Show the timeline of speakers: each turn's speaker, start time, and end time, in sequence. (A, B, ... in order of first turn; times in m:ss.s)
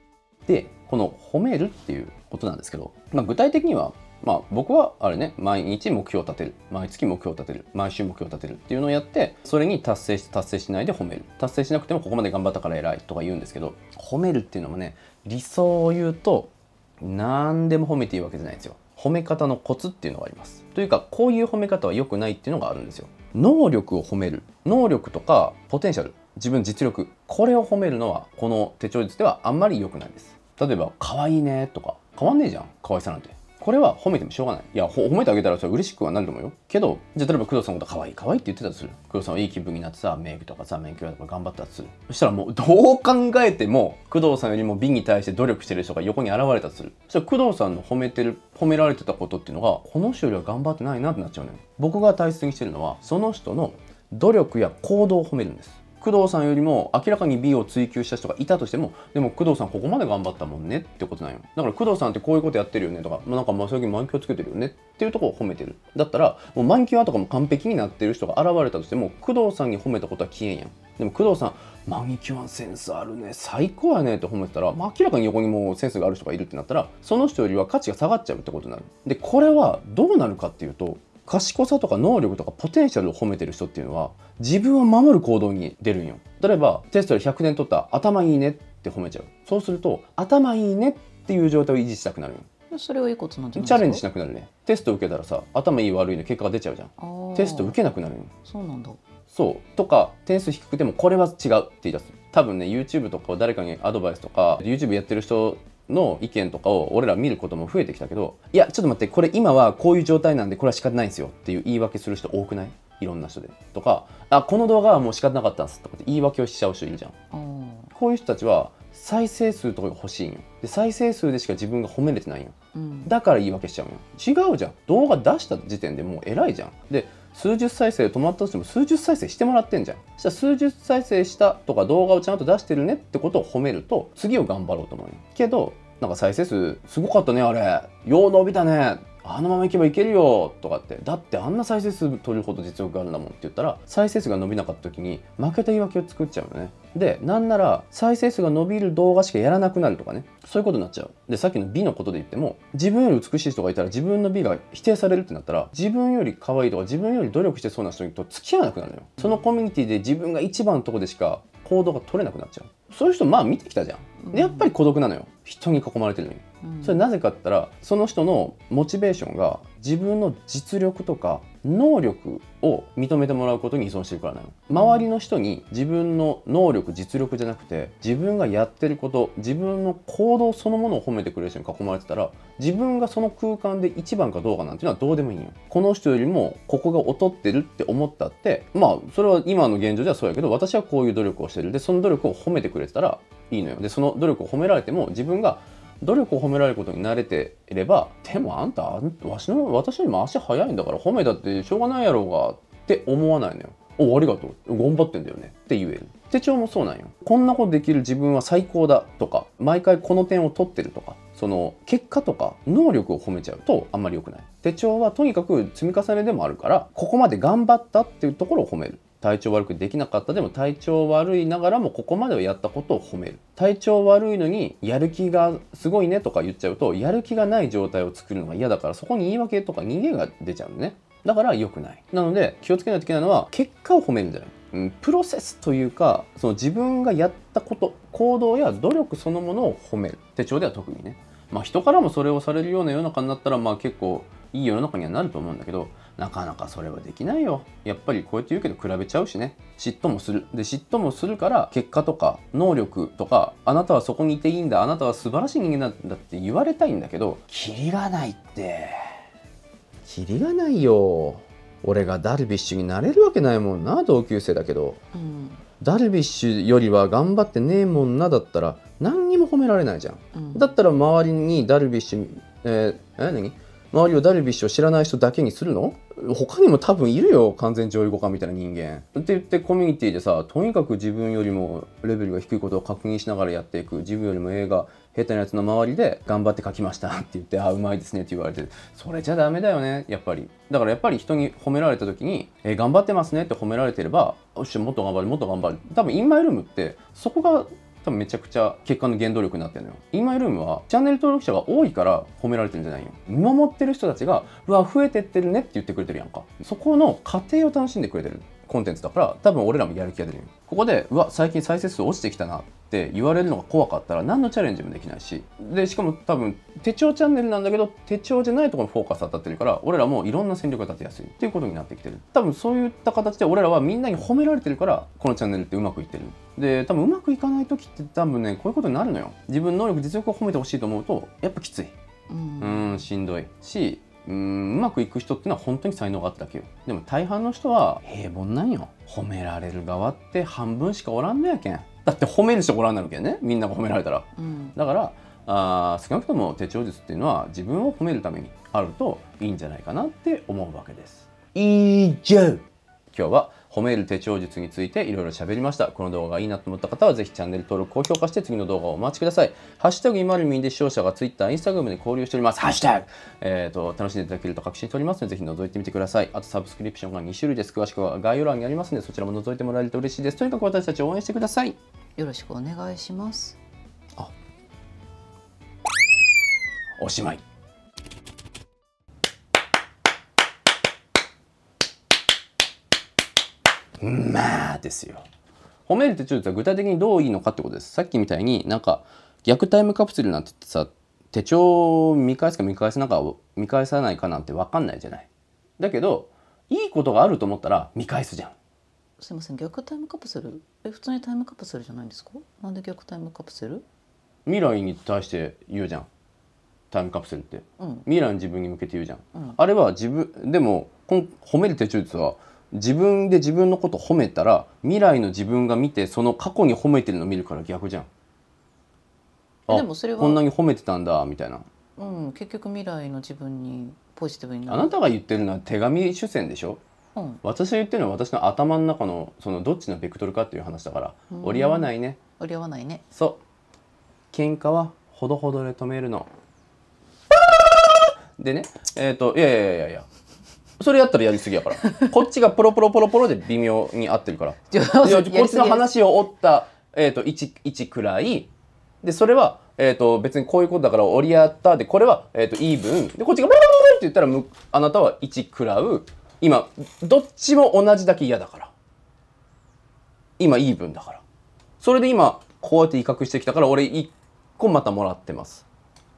0:00.5-1:32.5 A
1:32.7-1:34.0 B
1:33.5-1:38.3 A
1:37.0-1:37.8 B
1:38.4-1:39.0 B
1:39.3-1:57.1 A
1:57.3-1:57.9 B
1:57.9-2:02.5 A
2:02.7-2:03.1 B
2:03.1-4:19.0 A
2:44.2-2:44.7 B
2:46.6-2:47.0 B
2:54.7-2:55.1 B
4:20.0-4:25.0 A
4:25.1-4:25.6 B
4:25.8-5:32.0 A
4:30.3-4:30.7 B
5:32.3-5:33.0 B
5:32.6-6:11.8 A
5:44.4-5:44.8 B
6:12.2-6:13.6 B
6:17.0-6:17.4 A
6:24.0-6:25.2 A
6:25.8-6:38.6 A
6:39.2-6:43.8 B
6:44.5-6:46.1 A
6:46.9-6:58.1 A
6:47.8-6:48.0 B
6:59.7-7:01.7 A
6:59.7-7:00.4 B
7:02.0-7:04.9 B
7:04.7-7:06.8 A
7:07.2-7:07.4 B
7:07.4-7:12.2 A
7:11.3-7:13.0 B
7:13.1-7:13.4 A
7:14.3-7:16.3 A
7:18.4-7:20.1 A
7:20.8-7:28.5 A
7:21.8-7:22.1 B
7:24.7-7:25.9 B
7:29.0-7:38.7 A
7:40.4-7:41.2 A
7:41.8-7:45.6 A